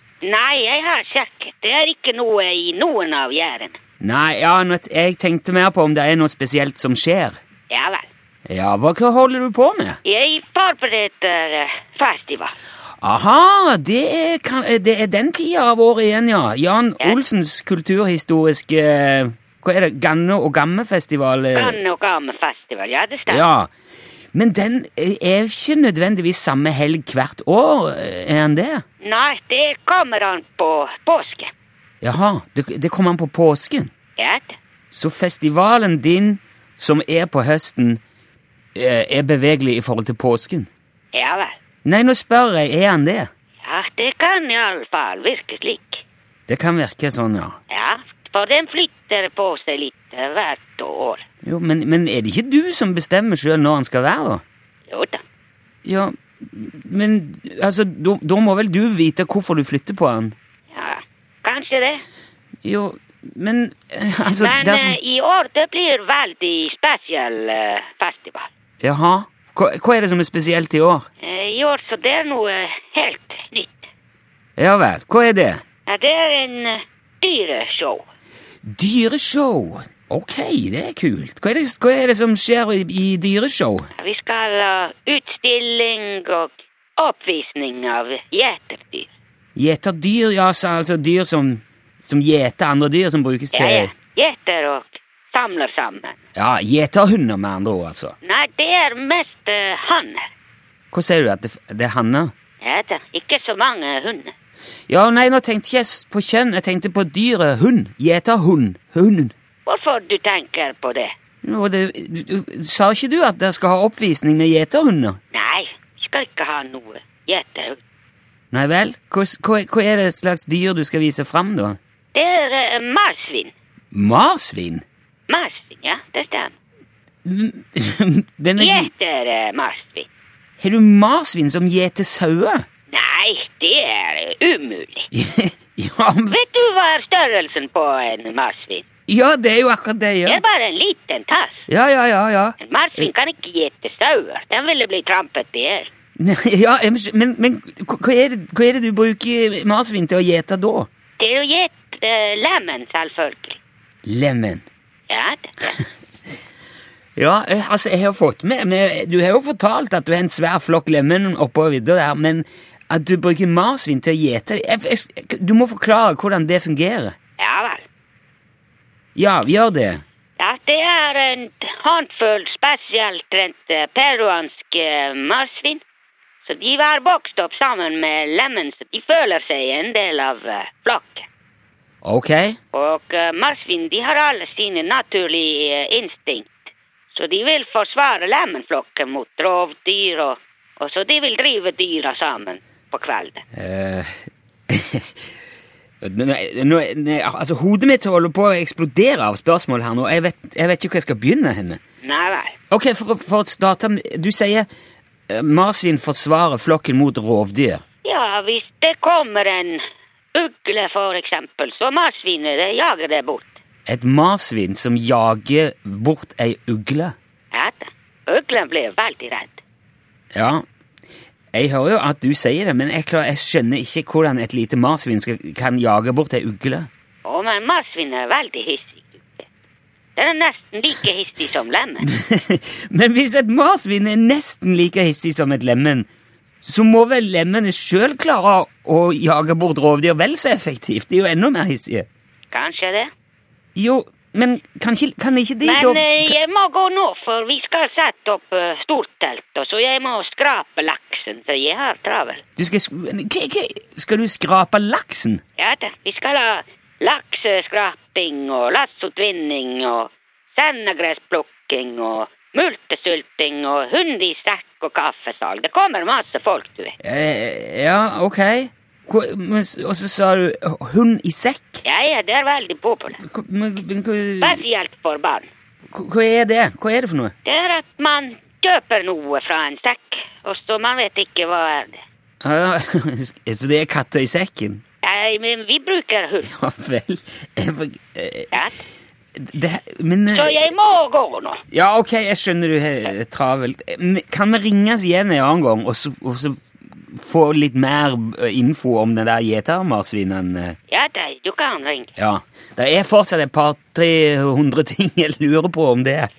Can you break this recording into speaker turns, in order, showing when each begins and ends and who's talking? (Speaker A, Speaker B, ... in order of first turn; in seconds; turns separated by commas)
Speaker A: 0.2-3.8, Speaker B: 4.0-7.4, Speaker A: 7.7-8.1, Speaker B: 8.5-10.0, Speaker A: 10.0-12.6, Speaker B: 13.0-21.8, Speaker A: 21.5-23.4, Speaker B: 23.3-23.7, Speaker B: 24.3-28.8, Speaker A: 29.0-31.5, Speaker B: 32.0-33.9, Speaker A: 34.2-34.5, Speaker B: 34.9-38.0, Speaker B: 38.8-40.7, Speaker A: 41.1-41.6, Speaker B: 41.9-43.3, Speaker A: 43.6-46.0, Speaker B: 46.5-47.6, Speaker A: 47.7-51.2, Speaker B: 51.4-54.4, Speaker A: 54.9-55.2, Speaker B: 55.8-60.4, Speaker A: 60.7-62.0, Speaker B: 62.6-65.0, Speaker A: 64.3-68.5, Speaker B: 68.8-71.1, Speaker A: 71.2-73.9, Speaker B: 74.6-75.6, Speaker A: 75.9-78.0, Speaker B: 78.7-83.9, Speaker A: 84.0-89.1, Speaker B: 89.6-93.9, Speaker A: 93.5-96.2, Speaker B: 96.3-98.2, Speaker A: 98.2-100.3, Speaker B: 100.9-102.3, Speaker A: 102.6-104.3, Speaker B: 104.9-109.3, Speaker A: 109.7-111.1, Speaker B: 111.4-115.2, Speaker A: 115.3-117.8, Speaker B: 118.5-121.8, Speaker A: 122.1-123.5, Speaker B: 123.9-124.8, Speaker A: 125.3-126.5, Speaker B: 127.2-128.9, Speaker A: 128.6-130.1, Speaker B: 130.6-132.7, Speaker A: 132.9-135.1, Speaker B: 135.1-136.4, Speaker A: 136.3-138.8, Speaker B: 139.1-140.4, Speaker A: 140.2-141.6, Speaker B: 141.7-143.1, Speaker A: 142.6-145.9, Speaker B: 146.2-150.9, Speaker A: 151.2-153.6, Speaker B: 154.1-154.7, Speaker A: 155.1-155.8, Speaker B: 157.2-167.2, Speaker A: 167.4-167.8, Speaker B: 169.2-170.0, Speaker A: 170.4-175.8, Speaker A: 176.5-181.3, Speaker B: 182.0-182.6, Speaker A: 182.7-193.4, Speaker B: 193.5-195.1, Speaker B: 196.0-201.8, Speaker A: 202.0-202.6, Speaker B: 202.7-204.7, Speaker B: 205.3-207.8, Speaker A: 208.0-209.8, Speaker A: 210.3-213.6, Speaker B: 213.9-217.2, Speaker A: 217.5-219.6, Speaker B: 220.3-220.6, Speaker B: 221.5-226.9, Speaker A: 227.2-229.5, Speaker A: 230.2-232.1, Speaker B: 232.1-236.1, Speaker B: 236.6-242.1, Speaker A: 242.5-243.1, Speaker B: 243.8-246.3, Speaker A: 245.6-252.4, Speaker B: 252.6-255.4, Speaker A: 255.6-267.0, Speaker B: 267.0-271.8, Speaker A: 271.8-273.2, Speaker B: 273.2-274.6, Speaker A: 274.4-275.5, Speaker B: 275.9-277.3, Speaker A: 277.4-282.0, Speaker B: 282.4-284.8, Speaker A: 285.0-286.5, Speaker B: 286.4-288.5, Speaker A: 288.5-288.8, Speaker B: 289.4-290.6, Speaker A: 290.3-291.6, Speaker B: 291.7-300.8, Speaker A: 300.9-302.1, Speaker B: 302.2-306.3